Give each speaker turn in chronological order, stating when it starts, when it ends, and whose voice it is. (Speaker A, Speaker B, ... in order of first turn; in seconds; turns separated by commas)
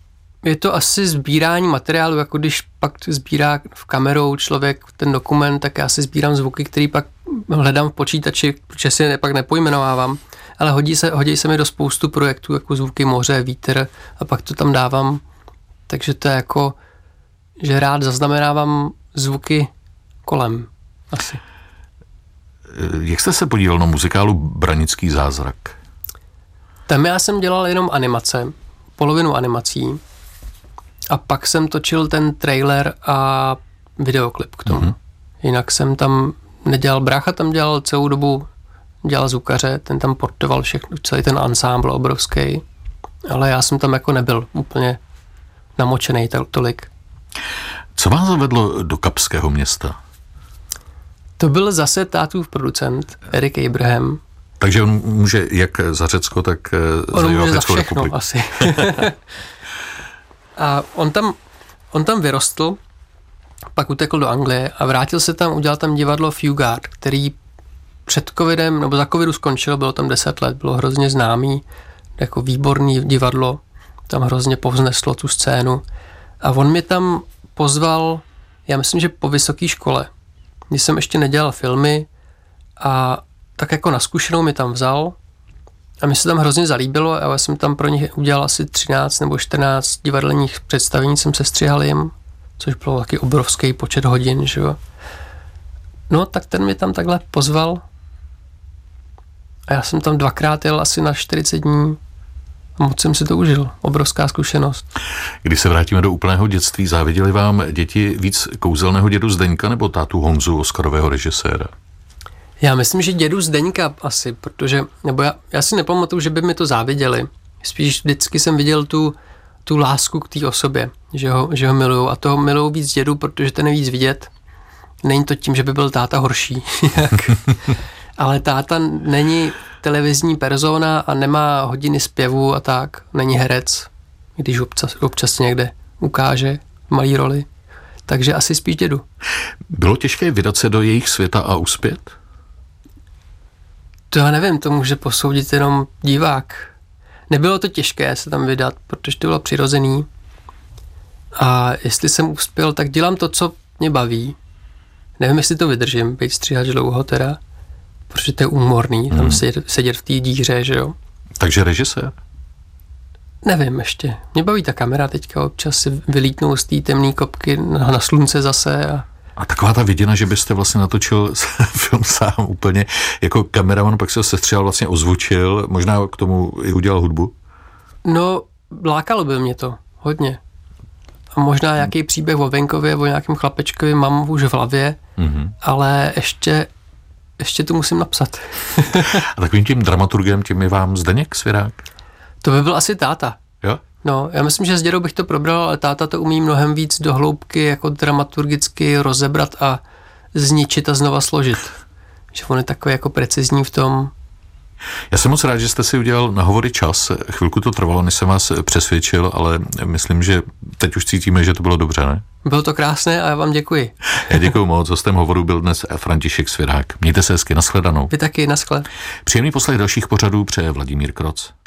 Speaker A: 0.4-15.2, Speaker A: 15.9-16.8, Speaker A: 17.6-19.7, Speaker A: 20.2-21.4, Speaker B: 22.7-25.8, Speaker A: 26.9-30.0, Speaker A: 31.1-38.5, Speaker B: 34.7-34.9, Speaker A: 39.0-42.6, Speaker A: 43.3-45.0, Speaker A: 45.8-46.9, Speaker B: 48.0-50.0, Speaker A: 51.4-54.2, Speaker B: 54.6-58.9, Speaker A: 57.1-59.2, Speaker A: 60.6-61.4, Speaker A: 61.9-62.8, Speaker A: 63.7-67.4, Speaker A: 68.0-71.6, Speaker A: 72.2-75.8, Speaker A: 76.4-80.1, Speaker A: 80.7-82.1, Speaker A: 82.8-85.2, Speaker A: 86.0-94.8, Speaker A: 96.1-97.8, Speaker A: 99.7-102.0, Speaker A: 102.8-104.8, Speaker B: 105.4-111.7, Speaker A: 112.6-124.3, Speaker A: 125.0-127.5, Speaker A: 128.2-137.5, Speaker A: 138.1-139.0, Speaker B: 139.7-142.1, Speaker A: 144.1-146.7, Speaker A: 147.3-150.1, Speaker A: 151.3-154.4, Speaker A: 155.2-157.4, Speaker A: 158.1-160.9, Speaker B: 159.1-159.4, Speaker B: 161.4-162.1, Speaker A: 163.4-169.1, Speaker B: 169.4-177.3, Speaker A: 178.0-180.4, Speaker A: 181.3-185.0, Speaker B: 185.2-185.5, Speaker A: 185.6-186.7, Speaker A: 187.4-189.2, Speaker B: 189.0-191.8, Speaker A: 192.4-193.4, Speaker A: 194.0-199.8, Speaker A: 200.3-201.8, Speaker A: 202.3-204.1, Speaker B: 205.1-212.2, Speaker A: 212.4-214.5, Speaker B: 214.2-218.1, Speaker A: 218.1-218.9, Speaker B: 219.2-221.5